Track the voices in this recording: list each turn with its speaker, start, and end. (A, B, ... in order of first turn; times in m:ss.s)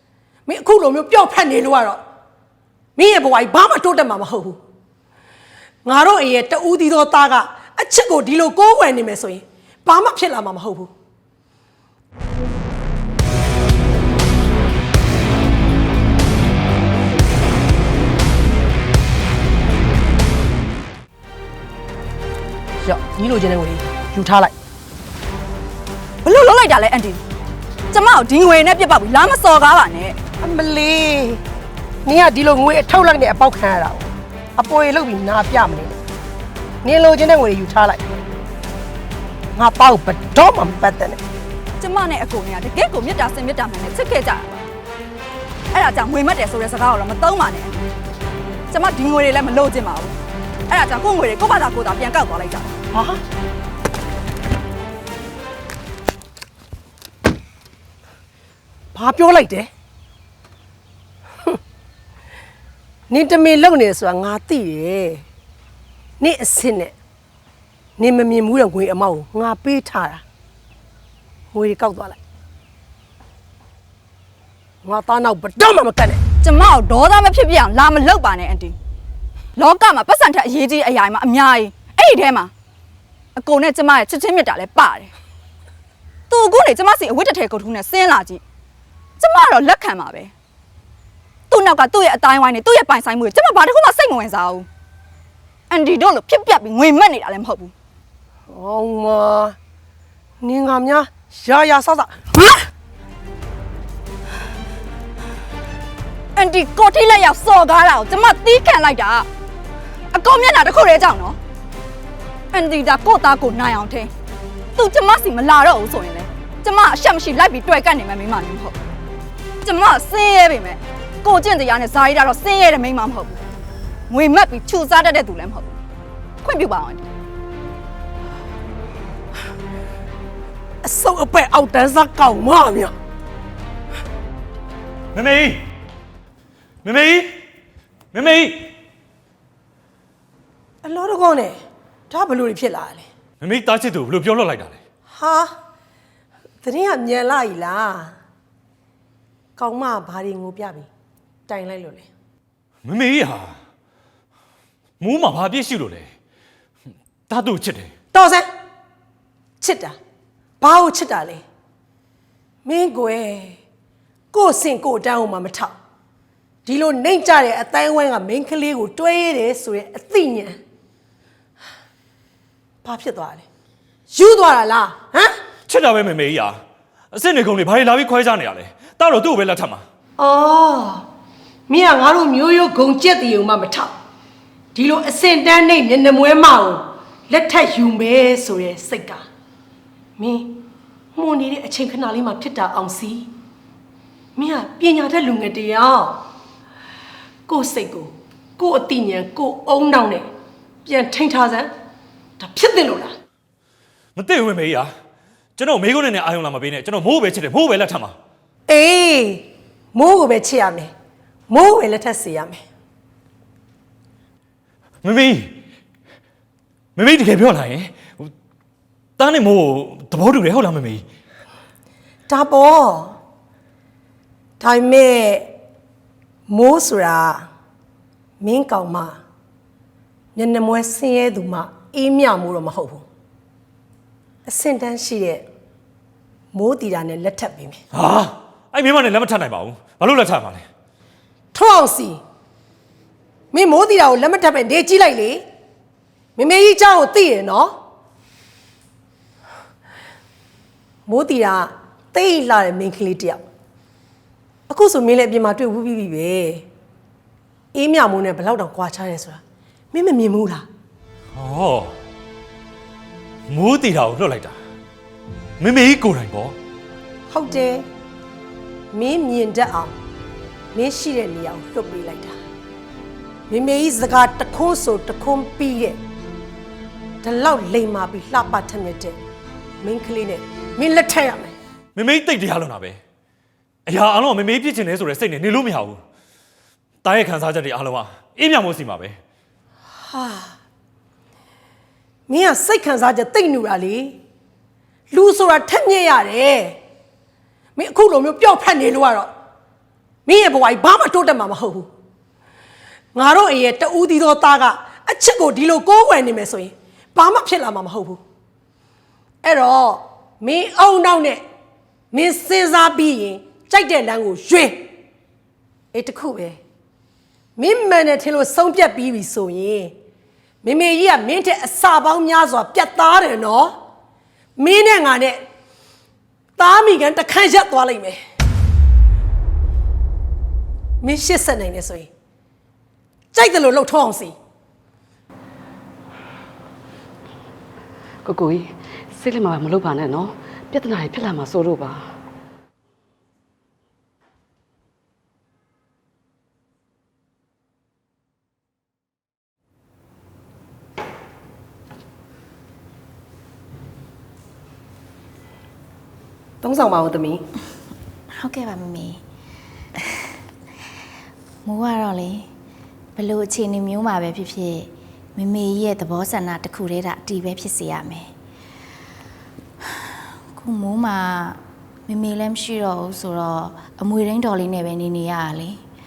0:00.4-0:02.0 A
0:03.0-0:04.6 A
0:05.8-0:10.9 A
0:22.8-0:24.5 A
0:26.2-0:27.2 B
0:27.9-0:30.2 B
0:30.4-0:31.4 A
0:32.0-0:36.0 A
0:36.8-0:38.0 A
0:39.5-0:41.2 A
0:41.8-0:44.6 B
0:45.7-0:47.8 B
0:48.7-0:50.1 B
0:50.7-0:52.7 B
0:52.9-0:53.2 A
0:58.9-0:59.7 A
1:03.1-1:05.2 A
1:06.2-1:06.9 A
1:08.0-1:10.2 A
1:11.5-1:12.2 A
1:14.8-1:16.2 A
1:16.4-1:18.7 B
1:19.6-1:22.5 B
1:23.4-1:25.1 B
1:26.3-1:28.4 B
1:29.2-1:30.3 B
1:31.5-1:34.6 B
1:35.7-1:37.7 B
1:38.5-1:39.6 A
1:40.4-1:42.6 A
1:46.4-1:49.3 B
1:50.1-1:51.4 B
1:52.5-1:54.1 B
1:54.8-1:58.8 B
1:59.6-2:03.4 B
2:04.1-2:05.7 B
2:06.4-2:07.0 B
2:10.8-2:12.9 A
2:15.1-2:15.6 C
2:16.8-2:17.3 C
2:18.1-2:18.7 C
2:20.8-2:21.6 A
2:22.1-2:23.0 A
2:23.4-2:24.8 C
2:25.1-2:25.5 A
2:26.6-2:28.1 A
2:29.6-2:30.9 A
2:31.5-2:32.1 A
2:32.8-2:33.5 C
2:35.0-2:36.1 C
2:37.3-2:37.9 C
2:38.1-2:38.5 A
2:39.6-2:40.0 A
2:40.6-2:41.4 A
2:42.6-2:43.6 A
2:44.3-2:45.7 A
2:46.6-2:50.6 A
2:52.8-2:53.4 A
2:54.1-2:55.3 A
2:55.7-2:56.5 C
2:57.1-2:59.8 C
3:00.2-3:01.0 A
3:01.7-3:03.9 A
3:04.7-3:09.2 A
3:10.2-3:10.6 A
3:11.1-3:13.3 A
3:14.4-3:16.2 A
3:17.5-3:20.2 A
3:20.8-3:21.7 A
3:22.4-3:23.1 A
3:24.2-3:24.9 C
3:25.6-3:28.1 C
3:28.7-3:30.9 A
3:31.5-3:32.6 A
3:35.0-3:35.5 C
3:37.0-3:38.3 C
3:39.2-3:41.0 C
3:42.3-3:43.2 A
3:44.6-3:45.5 A
3:46.5-3:47.4 A
3:48.4-3:49.2 A
3:50.3-3:53.0 A
3:54.4-3:55.4 A
3:56.5-3:57.8 A
3:57.9-4:00.7 C
4:01.5-4:02.2 A
4:03.5-4:05.4 A
4:06.4-4:07.7 A
4:11.1-4:13.4 A
4:14.7-4:16.6 A
4:17.7-4:19.4 A
4:19.9-4:20.6 A
4:21.3-4:21.9 C
4:23.5-4:24.5 C
4:25.6-4:26.6 C
4:27.3-4:27.8 A
4:28.9-4:29.9 A
4:30.7-4:32.4 A
4:33.5-4:36.0 A
4:37.2-4:39.2 A
4:39.8-4:41.6 A
4:42.0-4:43.0 C
4:43.9-4:46.0 C
4:47.0-4:49.2 C
4:50.1-4:50.5 A
4:52.3-4:54.2 A
4:55.1-4:56.8 A
4:57.7-4:59.3 A
5:00.2-5:01.9 A
5:03.1-5:08.2 A
5:09.4-5:11.4 A
5:12.1-5:14.9 A
5:15.9-5:16.6 A
5:17.6-5:19.9 A
5:20.6-5:23.7 A
5:24.6-5:25.4 A
5:26.6-5:28.2 A
5:31.0-5:32.1 A
5:33.3-5:34.3 A
5:38.2-5:42.0 D
5:56.6-5:57.4 A
5:58.4-5:59.2 E
6:00.0-6:00.3 E
6:01.6-6:02.4 E
6:03.2-6:08.3 E
6:09.9-6:15.8 E